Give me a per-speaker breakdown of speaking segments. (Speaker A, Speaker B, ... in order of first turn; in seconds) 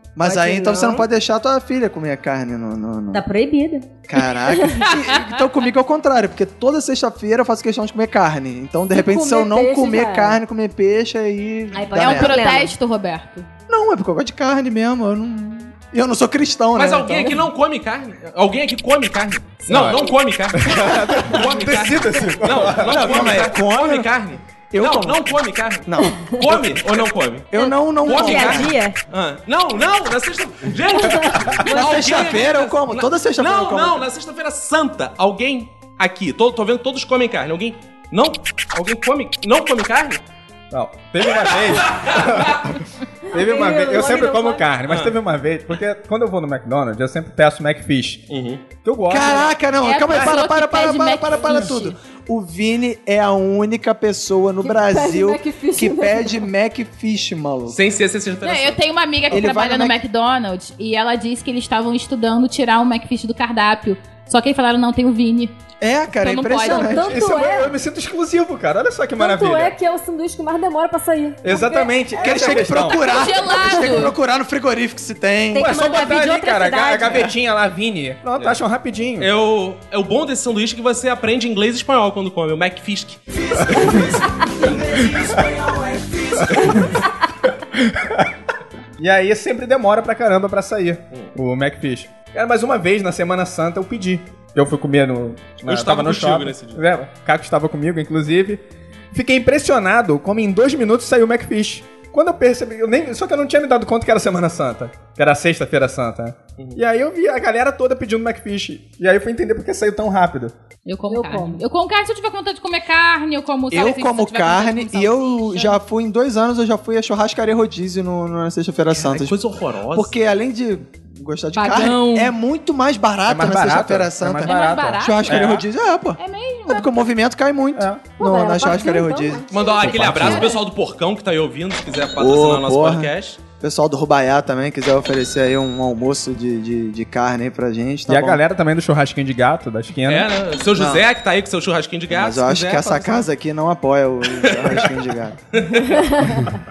Speaker A: 0.1-3.2, 4.1-12.4, 13.7-17.4, 20.7-21.1, 22.8-24.1, 24.7-25.2, 25.9-26.9, 27.5-28.7, 31.6-34.0, 49.1-57.8, 59.3-60.0, 65.8-67.2, 72.2-75.8, 113.7-119.3, 119.9-130.4, 132.2-138.4, 140.7-141.1, 142.1-145.4
Speaker B: 0.2-1.1, 3.1-3.9, 11.7-12.7, 27.5-28.9, 31.6-32.4, 43.3-44.6, 75.5-77.3
Speaker C: 4.8-5.3, 11.9-13.5, 49.8-51.9, 58.4-65.5, 66.2-67.1, 72.9-74.1, 110.8-115.8, 121.5-122.3, 124.4-125.5, 126.2-126.9, 129.5-130.6
Speaker D: 8.9-10.4, 54.6-56.5, 66.6-67.7, 69.2-72.6, 111.1-111.6, 128.2-129.7
Speaker E: 16.7-27.5, 28.0-40.2, 41.3-42.6, 44.9-45.1, 48.3-48.6, 57.7-58.8, 79.2-85.0, 95.6-96.8, 118.9-120.1, 129.5-133.4, 140.1-143.3, 144.5-144.8, 145.5-146.2
Speaker F: 19.7-20.0, 20.6-23.3, 40.7-48.2, 48.8-49.5, 67.0-69.7, 71.4-73.0, 75.5-79.3, 86.5-87.0, 87.8-88.3, 89.0-98.6, 99.1-110.5, 123.3-125.6, 127.8-128.1, 138.1-140.3